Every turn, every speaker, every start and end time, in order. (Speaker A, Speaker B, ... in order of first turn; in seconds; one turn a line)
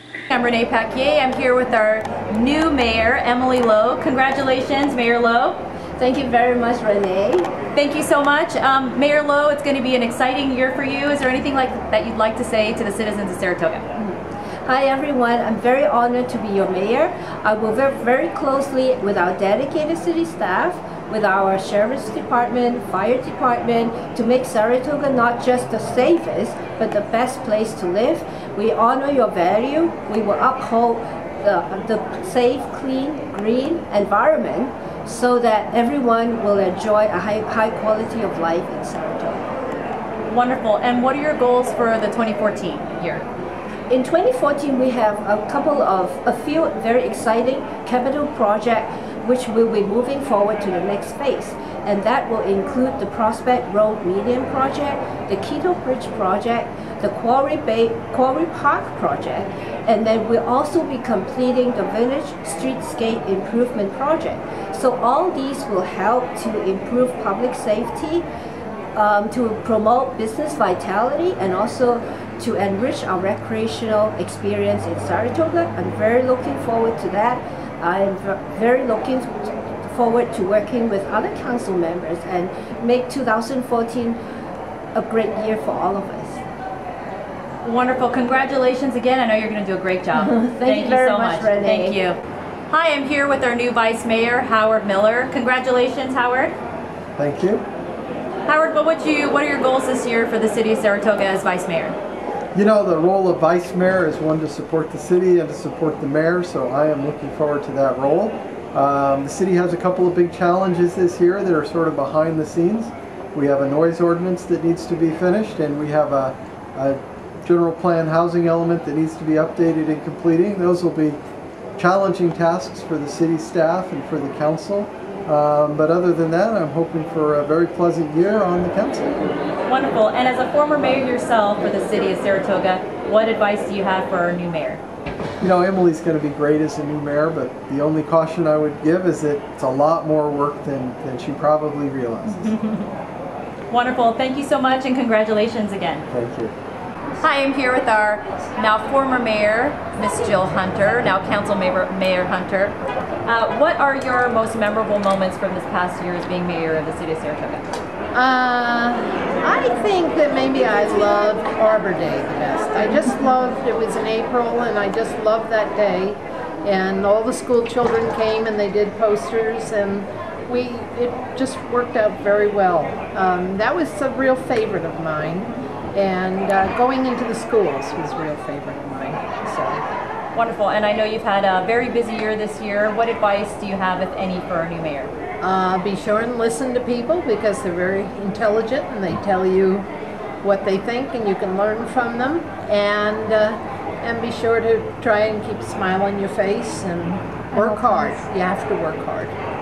Speaker A: 0.3-5.6
Speaker B: 6.0-7.5
Speaker A: 7.7-13.8
Speaker B: 14.0-39.6
Speaker A: 40.3-43.2
Speaker B: 43.9-68.3
Speaker B: 69.0-84.2
Speaker B: 85.0-86.4
Speaker A: 87.6-92.2
Speaker B: 90.1-92.0
Speaker A: 92.7-96.5
Speaker C: 97.2-97.6
Speaker A: 98.5-102.0
Speaker C: 102.5-121.2
Speaker C: 121.8-129.3
Speaker A: 129.7-134.8
Speaker C: 135.4-142.6
Speaker A: 142.3-142.9
Speaker A: 143.7-146.1
Speaker C: 146.1-146.5
Speaker A: 147.2-152.8
Speaker A: 153.3-157.7
Speaker D: 158.1-179.8
Speaker A: 180.3-185.1
Speaker D: 185.4-189.9
Speaker D: 190.4-199.3